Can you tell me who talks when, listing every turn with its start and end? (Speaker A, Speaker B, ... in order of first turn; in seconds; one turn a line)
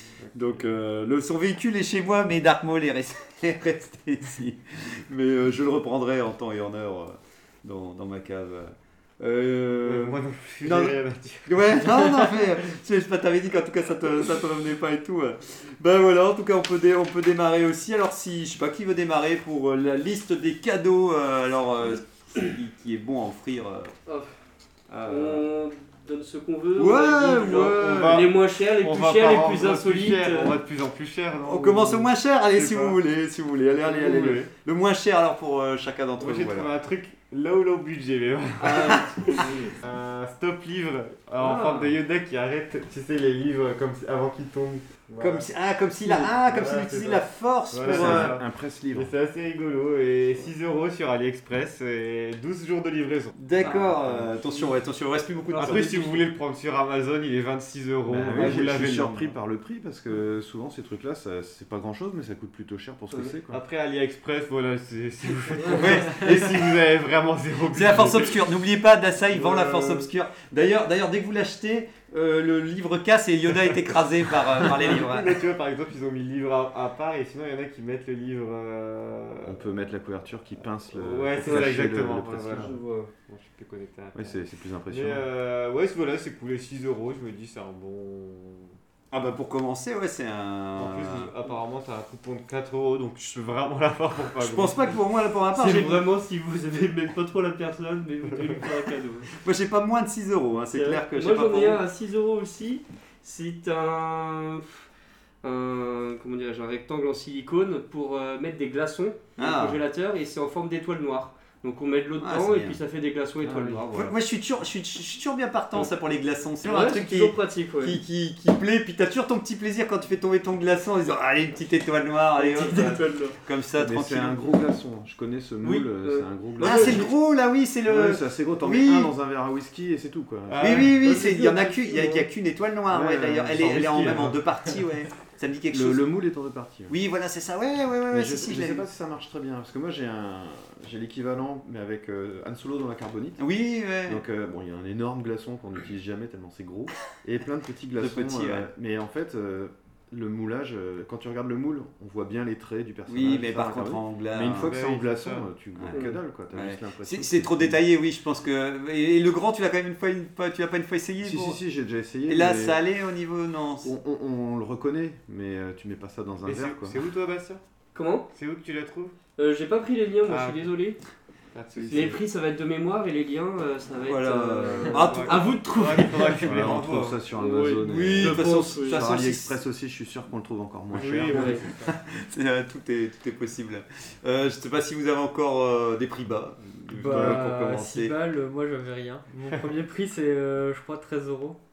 Speaker A: 0.2-0.6
Speaker B: 0.3-23.9
Speaker A: 9.8-12.4
Speaker C: 24.1-24.3
Speaker B: 24.9-25.4
Speaker C: 25.0-30.6
Speaker B: 26.8-28.2
Speaker A: 27.8-33.0
Speaker B: 31.4-36.7
Speaker A: 33.9-34.5
Speaker A: 36.2-45.5
Speaker C: 38.6-39.7
Speaker C: 41.4-42.0
Speaker B: 45.2-48.4
Speaker A: 46.0-54.3
Speaker D: 47.8-49.1
Speaker B: 53.4-56.2
Speaker C: 53.6-54.0
Speaker A: 55.5-59.3
Speaker C: 55.6-55.9
Speaker D: 58.1-63.6
Speaker A: 63.5-68.5
Speaker B: 65.7-66.8
Speaker B: 67.7-75.4
Speaker A: 69.3-70.1
Speaker A: 74.6-79.6
Speaker D: 79.4-82.7
Speaker A: 80.9-82.8
Speaker C: 81.5-83.1
Speaker A: 83.3-88.8
Speaker D: 84.1-85.2
Speaker B: 89.1-91.3
Speaker A: 90.8-95.0
Speaker B: 94.3-96.0
Speaker C: 95.5-99.3
Speaker B: 99.4-101.8
Speaker C: 100.7-104.8
Speaker C: 105.4-114.1
Speaker B: 109.4-109.8
Speaker B: 112.2-112.8
Speaker B: 113.9-124.5
Speaker C: 116.6-118.0
Speaker C: 122.4-123.4
Speaker D: 123.8-127.1
Speaker C: 125.6-127.1
Speaker B: 126.6-129.1
Speaker D: 127.9-131.2
Speaker A: 130.5-132.2
Speaker B: 130.6-136.1
Speaker D: 132.9-134.4
Speaker A: 133.6-134.4
Speaker D: 135.7-136.9
Speaker B: 136.9-138.8
Speaker D: 138.1-143.4
Speaker B: 143.4-144.2
Speaker D: 144.1-157.8
Speaker B: 148.0-148.7
Speaker B: 153.1-154.7
Speaker A: 154.6-155.5
Speaker C: 155.9-156.2
Speaker B: 156.5-161.6
Speaker D: 161.2-162.8
Speaker B: 162.3-163.9
Speaker D: 163.8-167.0
Speaker A: 166.4-167.6
Speaker C: 167.9-168.3
Speaker A: 168.3-169.1
Speaker C: 169.4-171.0
Speaker A: 170.3-170.7
Speaker A: 171.5-172.2
Speaker C: 171.8-176.8
Speaker B: 174.0-175.6
Speaker A: 174.9-177.2
Speaker D: 176.4-181.6
Speaker C: 177.3-179.1
Speaker B: 177.9-179.6
Speaker A: 180.9-181.9
Speaker C: 181.3-181.6
Speaker B: 181.4-188.2
Speaker E: 186.9-191.6
Speaker D: 187.1-187.4